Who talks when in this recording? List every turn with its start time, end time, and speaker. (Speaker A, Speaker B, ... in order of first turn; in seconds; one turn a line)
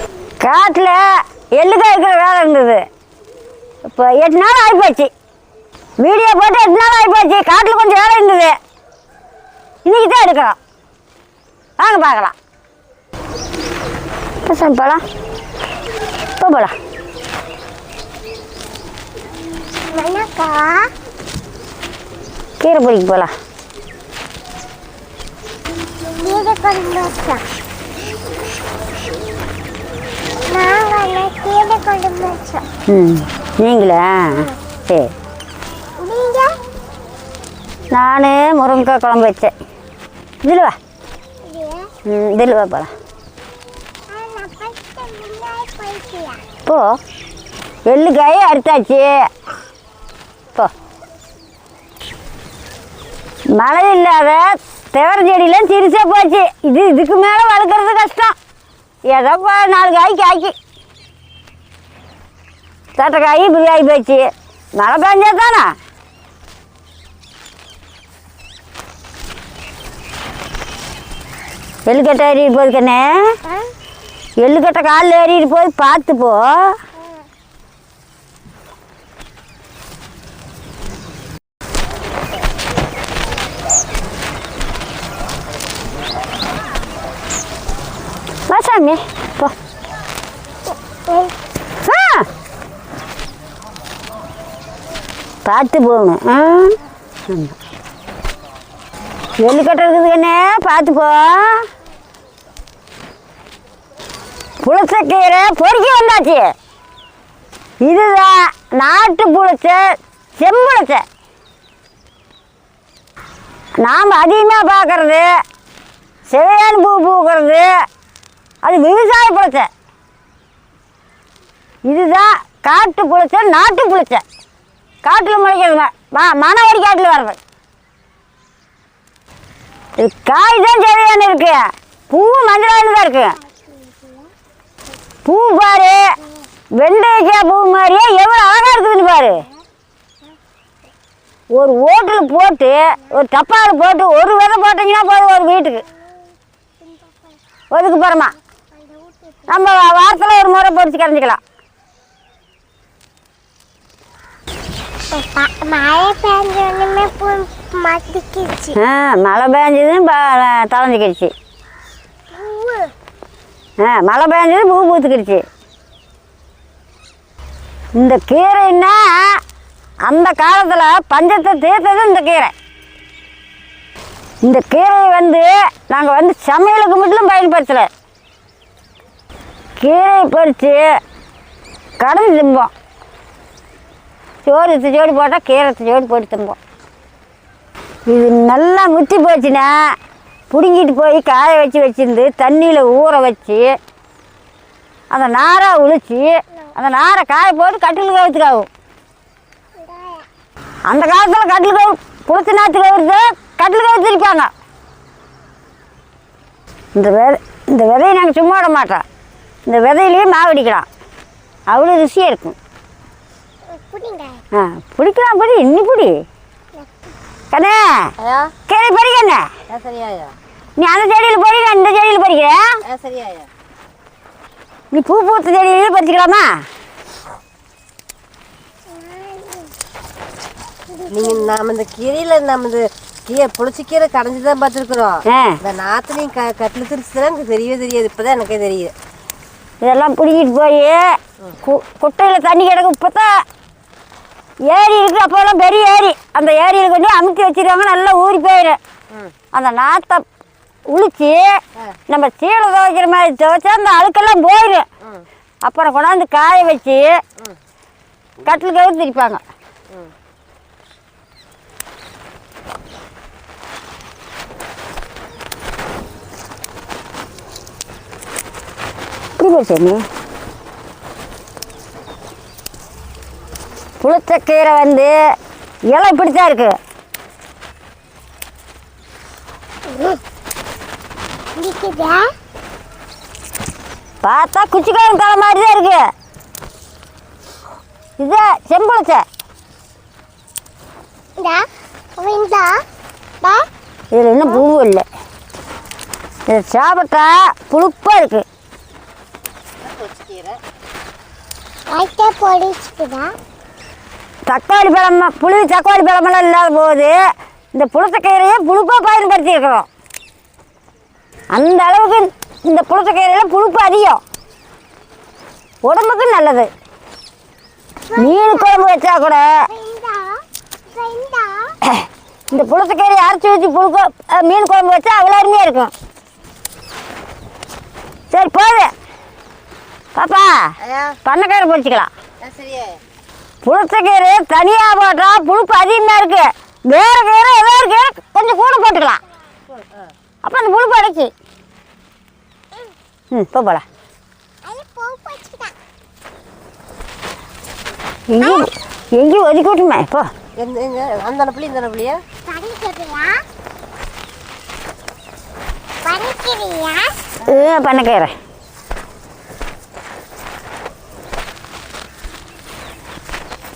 Speaker A: 0.4-1.0
Speaker A: 1.6-2.8
Speaker A: 3.9-5.1
Speaker A: 6.0-8.6
Speaker A: 9.8-10.6
Speaker A: 11.8-12.3
Speaker A: 14.4-15.0
Speaker A: 16.4-16.7
Speaker B: 19.9-20.9
Speaker A: 22.6-23.3
Speaker B: 26.2-27.4
Speaker B: 30.5-32.6
Speaker A: 32.9-35.1
Speaker B: 36.0-36.5
Speaker A: 37.9-39.5
Speaker A: 40.4-40.8
Speaker B: 41.5-41.9
Speaker A: 42.1-42.9
Speaker B: 44.1-46.5
Speaker A: 47.9-49.1
Speaker A: 53.6-58.3
Speaker A: 59.1-60.5
Speaker A: 63.0-64.3
Speaker A: 64.8-65.7
Speaker A: 71.9-73.0
Speaker A: 74.4-76.8
Speaker A: 88.5-89.5
Speaker B: 91.1-91.3
Speaker A: 91.8-92.3
Speaker A: 95.5-97.5
Speaker A: 99.4-101.7
Speaker A: 104.6-106.5
Speaker A: 107.8-109.8
Speaker A: 110.4-111.0
Speaker A: 113.8-115.2
Speaker A: 116.3-117.7
Speaker A: 118.6-119.7
Speaker A: 121.9-124.2
Speaker A: 125.0-127.4
Speaker A: 130.0-133.4
Speaker B: 133.4-134.3
Speaker A: 135.2-136.0
Speaker A: 136.8-139.4
Speaker A: 141.6-145.8
Speaker B: 146.8-147.4
Speaker A: 147.7-148.3
Speaker B: 148.7-149.5
Speaker A: 149.5-151.4
Speaker B: 155.1-158.8
Speaker A: 158.8-161.3
Speaker B: 162.3-162.9
Speaker A: 163.8-165.4
Speaker A: 168.0-169.4
Speaker A: 170.1-172.5
Speaker A: 174.4-177.9
Speaker A: 179.8-180.9
Speaker A: 182.0-182.7
Speaker A: 184.4-186.6
Speaker A: 188.1-189.7
Speaker A: 190.5-193.7
Speaker A: 195.1-198.7
Speaker B: 199.8-200.3
Speaker A: 200.9-204.5
Speaker A: 207.0-209.0
Speaker A: 209.7-210.9
Speaker A: 211.7-212.6
Speaker B: 213.7-214.4
Speaker A: 214.5-216.2
Speaker A: 217.5-218.1
Speaker C: 218.2-218.5
Speaker A: 218.7-219.5
Speaker C: 219.7-220.3
Speaker A: 220.8-222.6
Speaker C: 222.9-223.5
Speaker A: 224.9-226.5
Speaker B: 228.9-229.7
Speaker B: 230.9-231.5
Speaker C: 231.1-238.9
Speaker A: 235.3-235.6
Speaker A: 239.8-241.0
Speaker A: 241.6-243.3
Speaker A: 244.7-248.8
Speaker A: 249.5-250.2
Speaker A: 250.9-251.5
Speaker A: 252.1-254.8
Speaker A: 255.7-257.1
Speaker A: 258.4-259.4
Speaker A: 269.4-270.0
Speaker A: 274.0-275.1
Speaker A: 275.9-276.8
Speaker B: 281.6-282.3
Speaker A: 284.2-286.0
Speaker A: 288.2-289.2
Speaker B: 291.4-291.6
Speaker B: 292.2-292.8
Speaker B: 293.4-293.7
Speaker A: 294.1-295.1
Speaker A: 296.5-298.4
Speaker C: 299.8-300.6
Speaker B: 301.9-303.3
Speaker A: 304.5-307.1
Speaker A: 307.7-309.9
Speaker A: 311.5-314.2
Speaker A: 315.9-316.7
Speaker B: 318.1-319.0
Speaker A: 318.2-319.5
Speaker B: 319.7-321.8
Speaker A: 322.5-325.9
Speaker A: 328.3-328.9
Speaker A: 330.1-330.5
Speaker C: 330.8-331.2
Speaker A: 331.2-332.1
Speaker C: 332.4-333.0
Speaker A: 333.6-339.2
Speaker C: 339.7-340.1
Speaker A: 340.4-341.3
Speaker A: 343.3-343.9
Speaker B: 344.6-345.8
Speaker A: 348.3-350.3
Speaker B: 348.4-348.7
Speaker C: 350.6-352.2
Speaker B: 352.5-353.4
Speaker B: 356.0-357.1
Speaker A: 357.4-358.3